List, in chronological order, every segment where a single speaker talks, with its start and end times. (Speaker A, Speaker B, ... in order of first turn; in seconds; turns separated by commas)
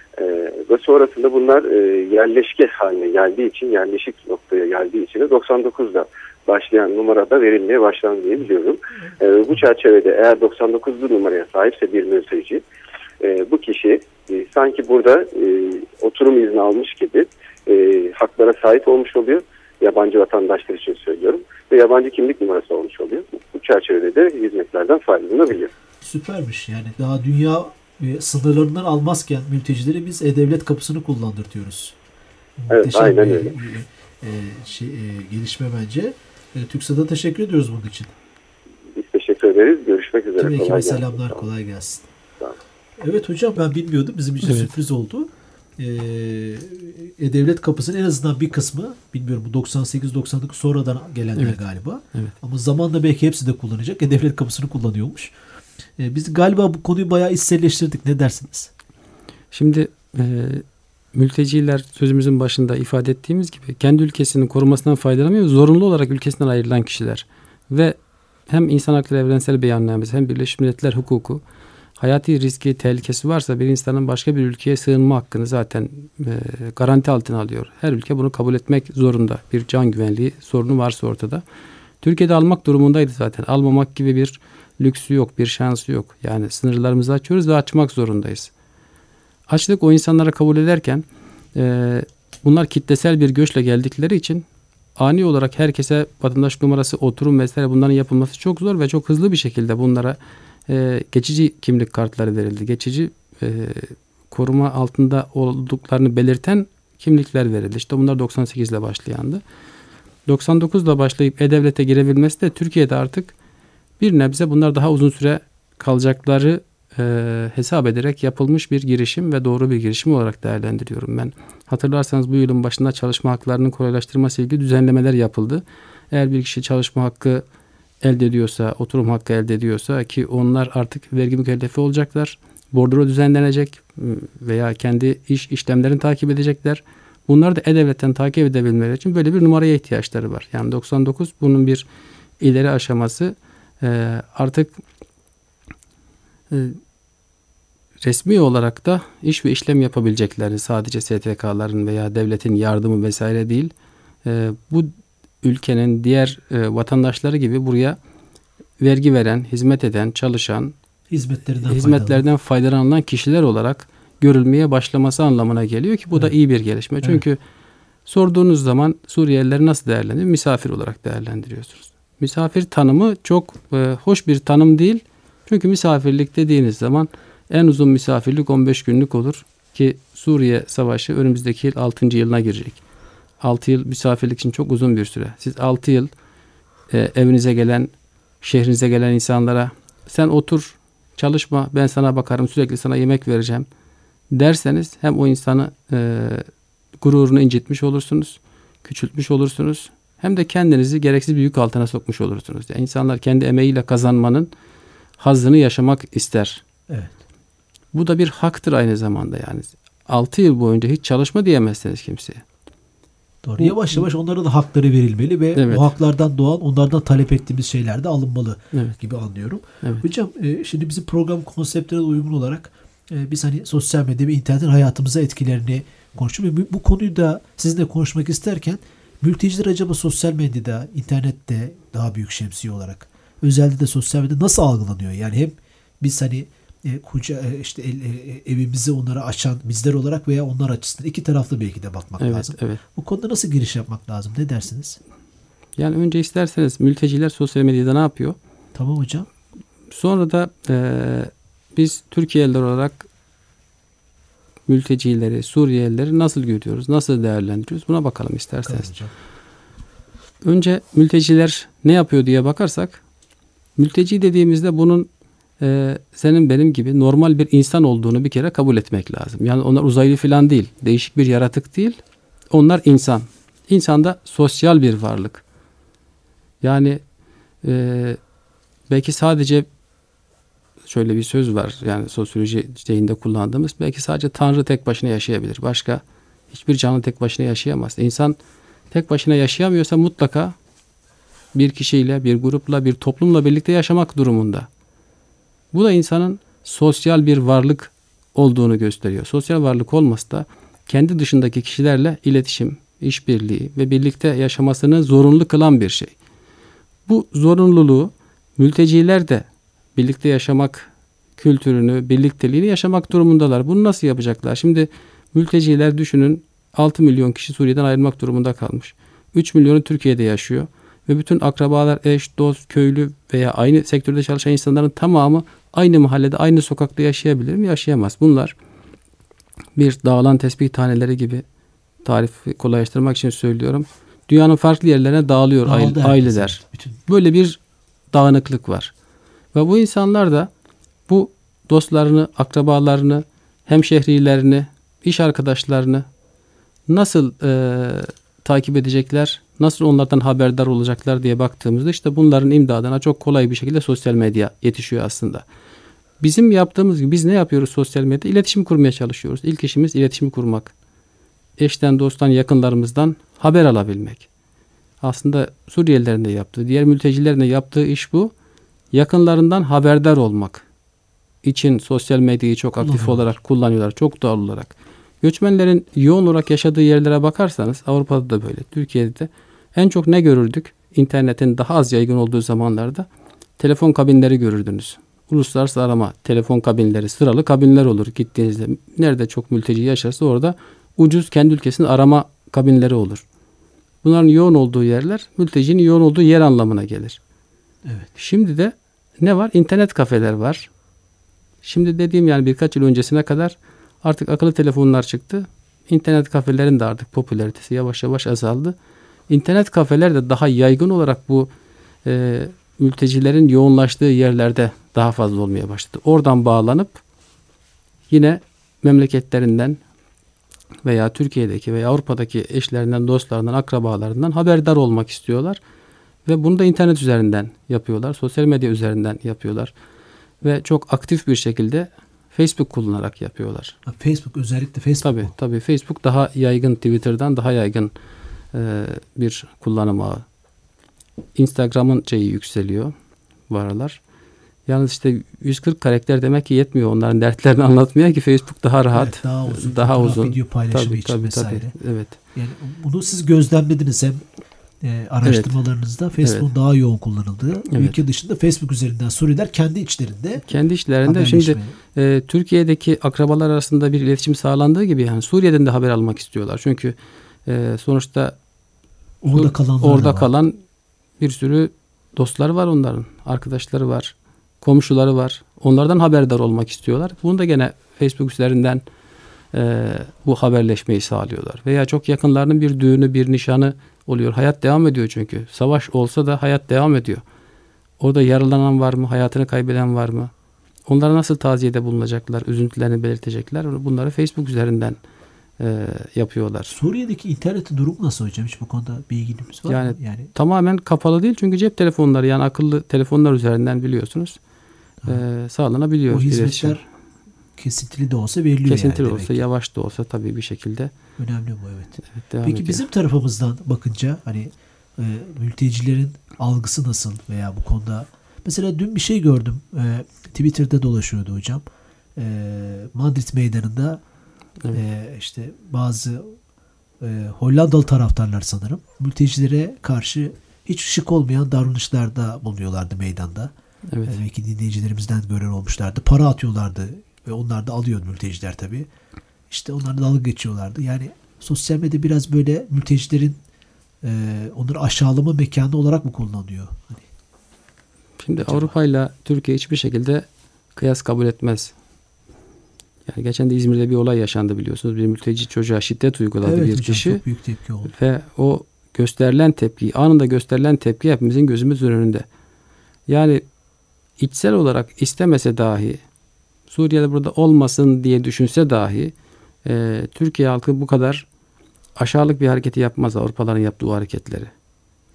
Speaker A: 0.2-12.6, Speaker A: 13.2-25.7, Speaker B: 26.0-32.0, Speaker B: 32.6-38.1, Speaker A: 32.7-33.5, Speaker A: 39.0-41.5, Speaker B: 40.4-42.1, Speaker B: 43.0-55.3, Speaker C: 44.4-44.7, Speaker B: 56.0-58.7, Speaker C: 59.5-68.0, Speaker C: 68.5-71.4, Speaker C: 72.0-81.4, Speaker C: 82.0-88.5, Speaker C: 89.5-94.5, Speaker C: 95.0-109.4, Speaker C: 110.3-113.3, Speaker C: 114.0-127.4, Speaker C: 128.0-141.8, Speaker C: 142.4-144.8, Speaker C: 146.5-146.8, Speaker C: 148.0-153.7, Speaker C: 154.2-158.0, Speaker C: 158.8-160.7, Speaker B: 161.1-162.2, Speaker C: 161.7-167.4, Speaker C: 168.1-182.8, Speaker C: 183.4-186.1, Speaker C: 186.9-193.7, Speaker C: 194.3-196.5, Speaker C: 197.0-204.5, Speaker C: 205.2-206.6, Speaker C: 207.9-212.4, Speaker B: 213.4-245.0, Speaker C: 213.6-214.0, Speaker C: 215.6-215.9, Speaker C: 242.2-242.8, Speaker C: 245.8-248.4, Speaker B: 248.8-249.3, Speaker C: 249.9-253.1, Speaker C: 254.7-258.9, Speaker B: 258.6-259.1, Speaker C: 260.4-263.0, Speaker C: 263.8-265.1, Speaker C: 265.6-272.0, Speaker C: 272.5-275.4, Speaker C: 276.6-277.0, Speaker C: 277.6-278.2, Speaker C: 278.9-279.7, Speaker C: 280.9-288.4, Speaker C: 288.9-290.6, Speaker C: 291.5-294.7, Speaker C: 295.7-306.1, Speaker C: 307.1-328.5, Speaker C: 329.8-331.4, Speaker C: 332.0-337.6, Speaker B: 335.6-337.0, Speaker C: 338.1-338.9, Speaker C: 339.5-340.5, Speaker C: 341.1-346.1, Speaker C: 346.9-355.4, Speaker C: 356.2-360.7, Speaker C: 361.6-364.3, Speaker C: 365.0-368.3, Speaker C: 368.9-370.7, Speaker C: 371.4-383.1, Speaker B: 372.8-373.3, Speaker C: 383.6-393.2, Speaker C: 394.0-397.2, Speaker B: 397.8-398.1, Speaker C: 398.2-400.7, Speaker C: 401.6-408.8, Speaker C: 409.3-411.5, Speaker C: 412.1-417.0, Speaker C: 418.1-419.8, Speaker C: 420.9-425.6, Speaker C: 426.3-429.7, Speaker C: 430.4-433.8, Speaker B: 433.9-435.3, Speaker C: 435.0-437.9, Speaker C: 438.5-440.2, Speaker C: 441.4-442.9, Speaker C: 443.5-444.0, Speaker C: 444.7-452.2, Speaker B: 448.9-451.8, Speaker B: 452.3-454.2, Speaker B: 454.8-460.4, Speaker C: 455.2-455.6, Speaker C: 456.2-456.5, Speaker C: 457.7-458.0, Speaker C: 460.5-468.4, Speaker B: 461.0-461.8, Speaker B: 469.2-470.3, Speaker C: 469.3-470.6, Speaker C: 471.2-478.8, Speaker C: 479.5-487.2, Speaker C: 488.0-490.3, Speaker C: 490.9-495.0, Speaker C: 495.6-496.8, Speaker B: 496.7-500.3, Speaker C: 499.7-504.4, Speaker C: 505.1-506.8, Speaker B: 506.1-506.8, Speaker B: 507.6-509.4, Speaker C: 508.7-510.9, Speaker B: 511.2-521.6, Speaker C: 512.2-512.9, Speaker B: 522.2-524.0, Speaker B: 524.7-526.4, Speaker B: 527.0-533.5, Speaker C: 533.9-534.2, Speaker B: 534.0-538.9, Speaker B: 539.5-543.4, Speaker B: 544.0-547.1, Speaker C: 548.2-551.7, Speaker B: 548.4-548.8, Speaker C: 553.1-557.2, Speaker B: 556.4-557.9, Speaker C: 557.9-562.2, Speaker C: 563.1-563.4, Speaker C: 564.2-566.0, Speaker C: 566.7-569.1, Speaker C: 569.6-571.3, Speaker C: 572.0-574.5